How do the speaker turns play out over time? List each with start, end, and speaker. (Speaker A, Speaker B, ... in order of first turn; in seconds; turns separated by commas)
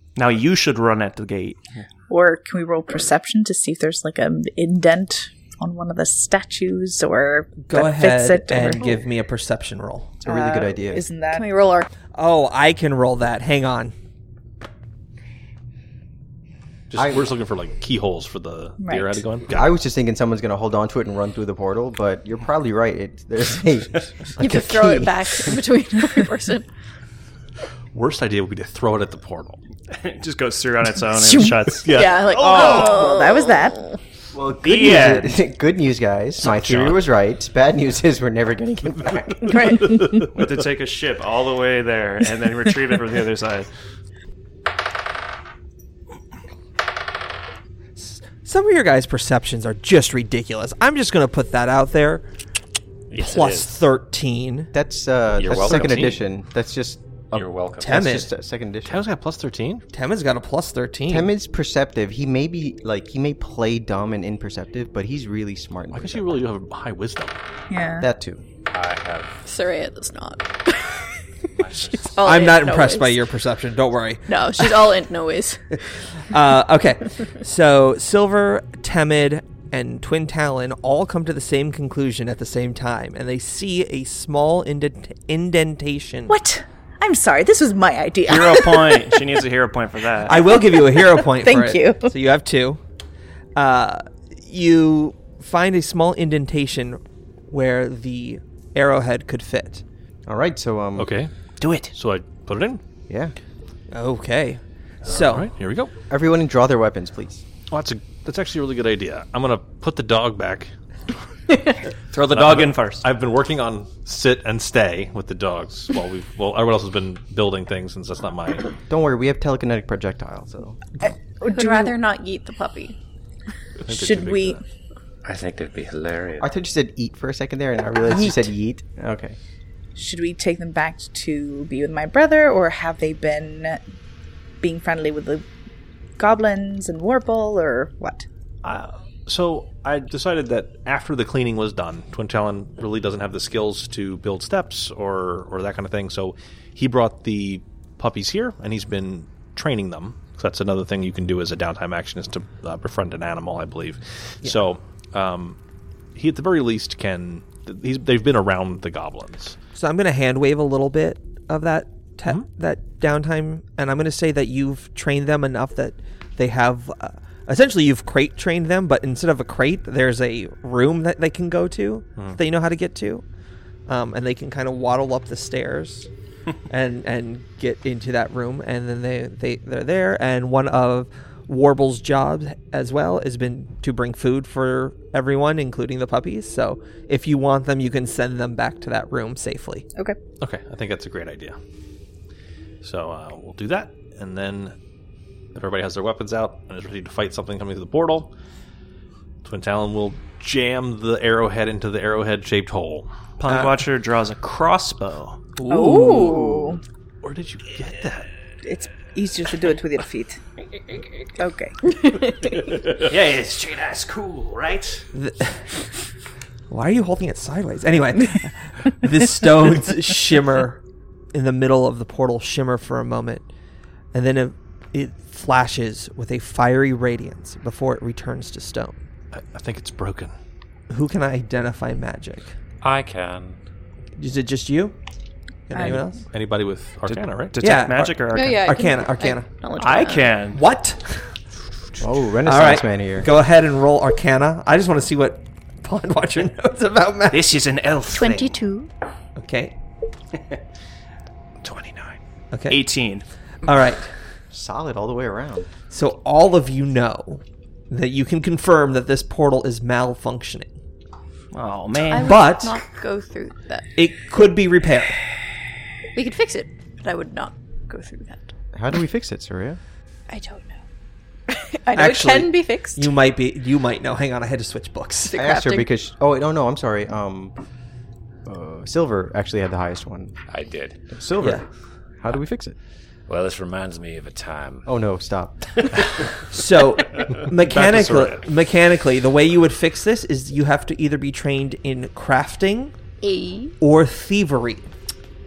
Speaker A: 0.1-1.8, Speaker B: 2.1-9.0, Speaker C: 7.6-10.2, Speaker D: 10.2-11.1, Speaker B: 10.2-11.4, Speaker E: 11.3-11.9, Speaker C: 12.1-13.9, Speaker F: 16.9-19.7, Speaker D: 17.0-17.3, Speaker B: 18.8-19.2, Speaker D: 19.5-25.6, Speaker E: 24.4-26.7, Speaker F: 27.9-29.6, Speaker A: 29.9-33.0, Speaker B: 31.2-31.6, Speaker F: 31.7-33.1, Speaker E: 31.9-34.0, Speaker B: 32.5-33.9, Speaker D: 34.4-39.5, Speaker A: 34.4-35.4, Speaker F: 36.5-37.0, Speaker E: 39.5-40.2, Speaker A: 40.2-43.7, Speaker C: 48.0-52.2, Speaker G: 53.1-53.9, Speaker C: 53.1-54.7, Speaker D: 54.7-59.0, Speaker G: 55.4-56.1, Speaker F: 55.5-56.2, Speaker G: 57.3-58.1, Speaker C: 57.8-58.3, Speaker F: 58.8-59.8, Speaker C: 59.9-61.3, Speaker D: 61.1-66.4, Speaker F: 65.9-67.4, Speaker B: 67.7-68.1, Speaker D: 68.0-68.4, Speaker G: 68.7-69.4, Speaker E: 69.5-71.1, Speaker G: 71.6-72.0, Speaker E: 71.9-73.2, Speaker C: 72.2-74.9, Speaker E: 74.3-75.8, Speaker C: 76.3-86.3, Speaker B: 86.3-89.2, Speaker A: 88.3-90.6, Speaker C: 90.2-92.8, Speaker B: 90.7-92.1, Speaker C: 93.5-99.8, Speaker D: 100.2-101.1, Speaker F: 101.0-101.3, Speaker A: 101.6-101.9, Speaker F: 101.9-102.8, Speaker D: 103.1-103.3, Speaker C: 103.9-105.5, Speaker F: 105.0-105.9, Speaker D: 106.1-107.4, Speaker F: 107.7-110.7, Speaker A: 112.1-113.1, Speaker F: 112.3-118.7, Speaker D: 118.9-120.8, Speaker B: 121.0-121.9, Speaker E: 121.4-123.0, Speaker F: 123.8-124.6, Speaker B: 123.9-124.6, Speaker G: 125.2-126.5, Speaker D: 126.4-129.4, Speaker B: 129.9-133.8, Speaker B: 134.6-135.4, Speaker B: 136.2-138.2, Speaker F: 138.6-155.6, Speaker F: 156.1-159.6, Speaker C: 159.7-173.2, Speaker C: 173.9-176.1, Speaker C: 176.7-189.8, Speaker F: 190.4-191.6, Speaker F: 192.8-194.7, Speaker F: 195.5-198.3, Speaker F: 199.4-203.1, Speaker A: 203.4-205.5, Speaker C: 203.5-203.7, Speaker C: 205.6-206.3, Speaker B: 205.7-206.8, Speaker E: 205.9-206.4, Speaker F: 207.2-208.3, Speaker B: 208.6-210.4, Speaker B: 211.4-211.8, Speaker E: 211.9-212.3, Speaker A: 212.9-215.1, Speaker C: 215.1-215.8, Speaker C: 216.7-220.8, Speaker C: 221.3-223.4, Speaker C: 224.1-229.1, Speaker F: 229.3-230.3, Speaker C: 230.9-232.5, Speaker G: 232.8-233.6, Speaker C: 234.2-234.9, Speaker C: 235.7-236.2, Speaker B: 235.8-236.0, Speaker F: 235.8-237.8, Speaker A: 237.0-238.7, Speaker C: 237.6-239.5, Speaker E: 238.3-240.4, Speaker A: 239.8-240.6, Speaker C: 240.5-241.1, Speaker D: 242.0-243.3, Speaker C: 242.4-247.6, Speaker A: 247.3-248.6, Speaker E: 248.1-248.9, Speaker C: 249.3-249.7, Speaker F: 251.6-252.0, Speaker C: 252.5-252.8, Speaker A: 252.7-253.2, Speaker C: 253.6-254.1, Speaker D: 254.5-255.7, Speaker C: 255.9-260.7, Speaker A: 261.5-262.4, Speaker E: 262.1-263.9, Speaker C: 262.1-262.8, Speaker C: 263.9-265.2, Speaker E: 266.1-268.5, Speaker D: 268.7-269.8, Speaker E: 270.3-270.8, Speaker E: 271.5-273.1, Speaker C: 271.9-275.4, Speaker E: 275.3-275.9, Speaker D: 275.4-277.5, Speaker D: 278.4-280.4, Speaker G: 280.5-281.0, Speaker D: 281.1-281.6, Speaker D: 282.2-282.8, Speaker G: 283.3-284.9, Speaker D: 284.9-285.6, Speaker C: 286.5-292.9, Speaker F: 287.6-288.4, Speaker E: 293.2-293.8, Speaker C: 293.8-294.9